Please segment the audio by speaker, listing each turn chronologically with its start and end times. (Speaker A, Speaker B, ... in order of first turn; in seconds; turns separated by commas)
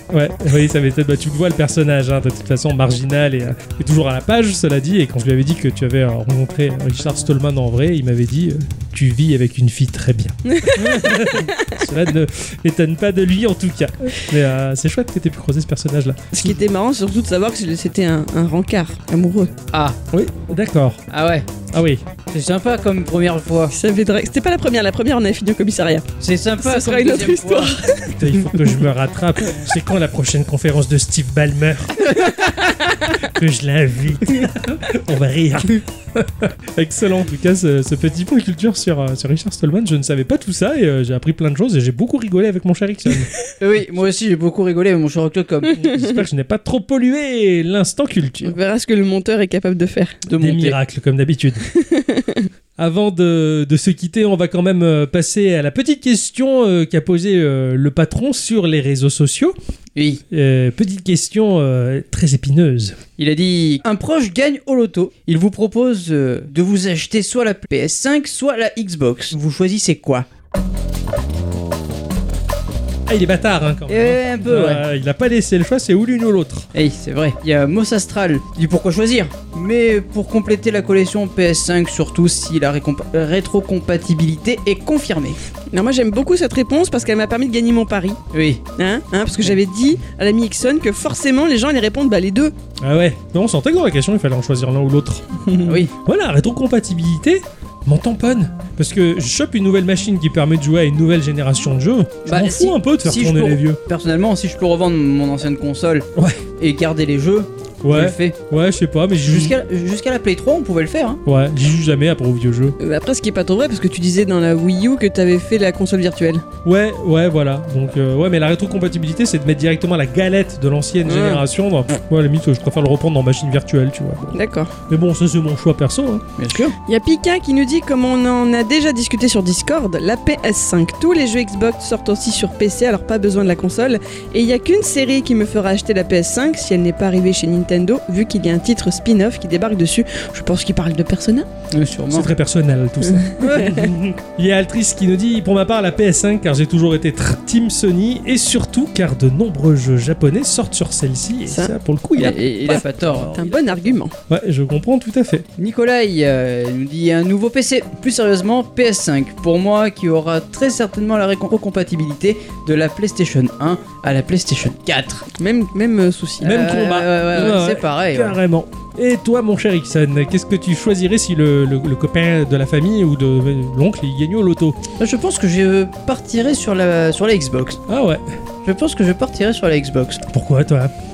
Speaker A: 0.1-16.6, Speaker B: 10.4-11.8, Speaker B: 16.3-19.5, Speaker C: 19.7-20.0, Speaker A: 20.1-21.0, Speaker C: 21.1-21.5, Speaker A: 21.7-22.1, Speaker C: 22.3-23.7, Speaker B: 23.7-26.1, Speaker C: 26.2-27.8, Speaker B: 26.6-28.2, Speaker A: 28.1-32.1, Speaker B: 32.4-33.1, Speaker A: 33.1-43.3, Speaker C: 43.6-45.8, Speaker A: 45.8-48.6, Speaker B: 45.8-46.2, Speaker B: 48.4-50.2, Speaker C: 50.2-50.8, Speaker A: 50.4-51.6, Speaker B: 51.7-52.5, Speaker A: 52.8-59.5, Speaker C: 60.0-60.2, Speaker A: 60.3-63.0, Speaker C: 63.2-70.2, Speaker A: 73.1-76.7, Speaker C: 73.9-74.8, Speaker C: 76.7-85.4, Speaker B: 85.7-88.2, Speaker C: 88.3-88.6, Speaker B: 88.8-92.5, Speaker A: 92.8-95.3, Speaker B: 95.4-95.8, Speaker C: 95.6-95.9, Speaker A: 96.0-103.8, Speaker C: 102.2-106.0, Speaker A: 106.2-106.4, Speaker C: 106.6-108.4, Speaker A: 107.8-109.6, Speaker C: 109.2-111.2, Speaker A: 111.2-112.8, Speaker B: 112.8-116.4, Speaker A: 116.6-124.3, Speaker B: 121.0-121.4, Speaker B: 124.3-124.7, Speaker A: 124.9-126.2, Speaker C: 126.4-126.8, Speaker B: 126.9-141.5, Speaker C: 141.7-142.3, Speaker A: 142.1-152.8, Speaker C: 143.4-144.2, Speaker B: 143.4-143.9, Speaker B: 151.5-151.7, Speaker C: 152.2-153.9, Speaker B: 152.7-154.1, Speaker A: 154.3-155.4, Speaker C: 155.6-165.3, Speaker B: 165.4-166.6, Speaker A: 166.4-174.8, Speaker C: 166.4-168.4, Speaker C: 175.0-177.8, Speaker A: 177.9-178.3, Speaker C: 178.6-180.2, Speaker A: 180.3-180.9